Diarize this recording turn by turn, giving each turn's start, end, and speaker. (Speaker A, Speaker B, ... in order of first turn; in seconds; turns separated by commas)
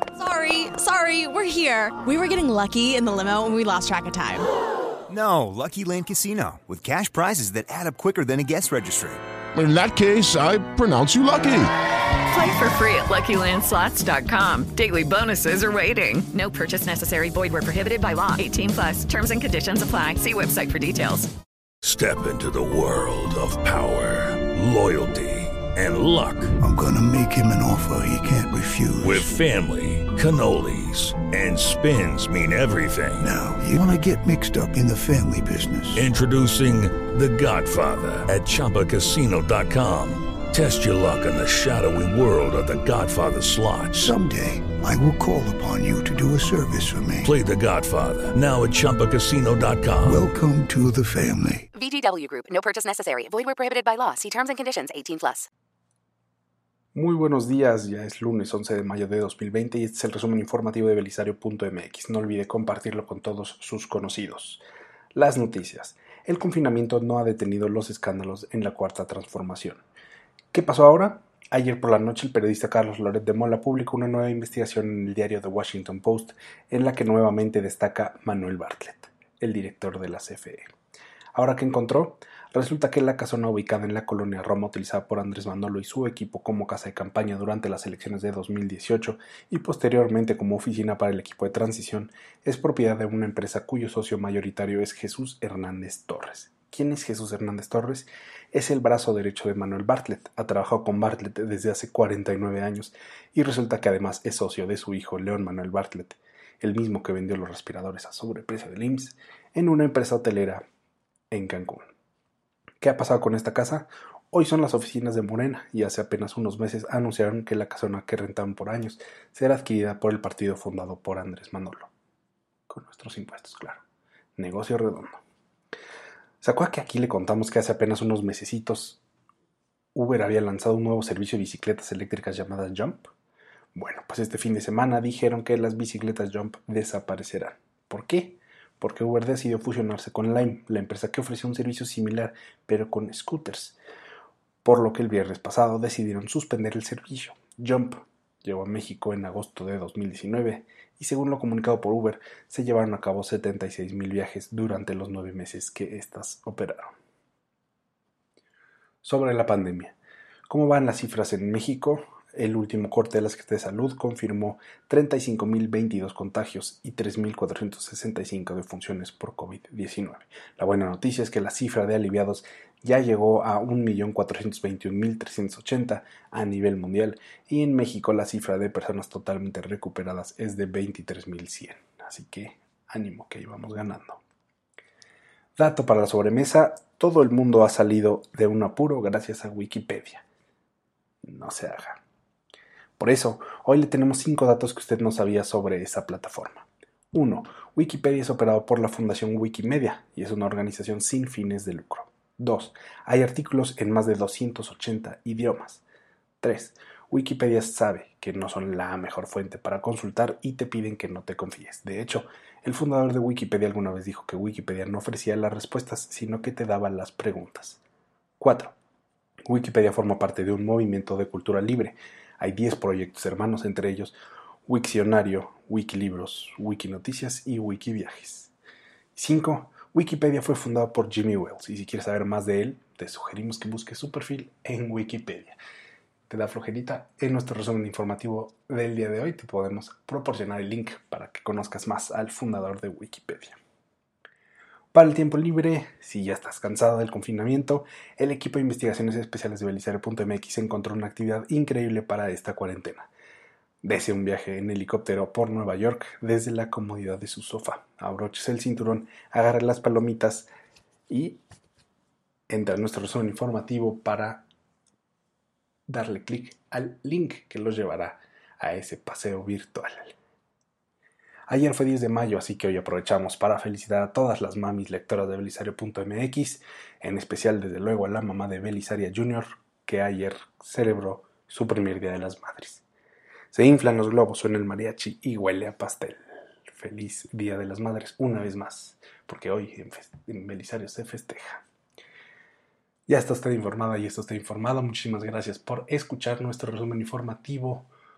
Speaker A: 0.2-4.4, Speaker B: 5.1-9.2, Speaker C: 9.5-11.7, Speaker D: 12.3-21.3, Speaker E: 21.8-26.5, Speaker F: 26.6-29.3, Speaker E: 29.0-33.3, Speaker F: 33.2-36.0, Speaker E: 35.9-44.1, Speaker F: 44.0-47.3, Speaker E: 47.2-50.3, Speaker F: 50.0-51.6, Speaker G: 51.7-55.5, Speaker H: 56.9-64.6, Speaker H: 65.1-69.8, Speaker H: 70.5-80.7, Speaker H: 81.3-110.6, Speaker H: 111.3-111.9, Speaker H: 112.8-121.9, Speaker H: 122.7-123.8, Speaker H: 124.4-125.2, Speaker H: 126.4-129.0, Speaker H: 129.9-133.1, Speaker H: 133.7-143.8, Speaker H: 144.6-156.9, Speaker H: 159.0-159.9, Speaker H: 160.5-184.2, Speaker H: 185.6-190.2, Speaker H: 191.2-192.0, Speaker H: 193.0-205.8, Speaker H: 206.4-217.8, Speaker H: 218.4-218.7, Speaker H: 219.5-224.2, Speaker H: 224.7-228.5, Speaker H: 229.2-235.6, Speaker H: 236.3-243.6, Speaker H: 244.9-253.1, Speaker H: 253.8-260.5, Speaker H: 261.1-261.4, Speaker H: 262.5-264.4, Speaker H: 265.9-270.1, Speaker H: 271.5-282.8, Speaker H: 283.5-291.6, Speaker H: 293.1-297.9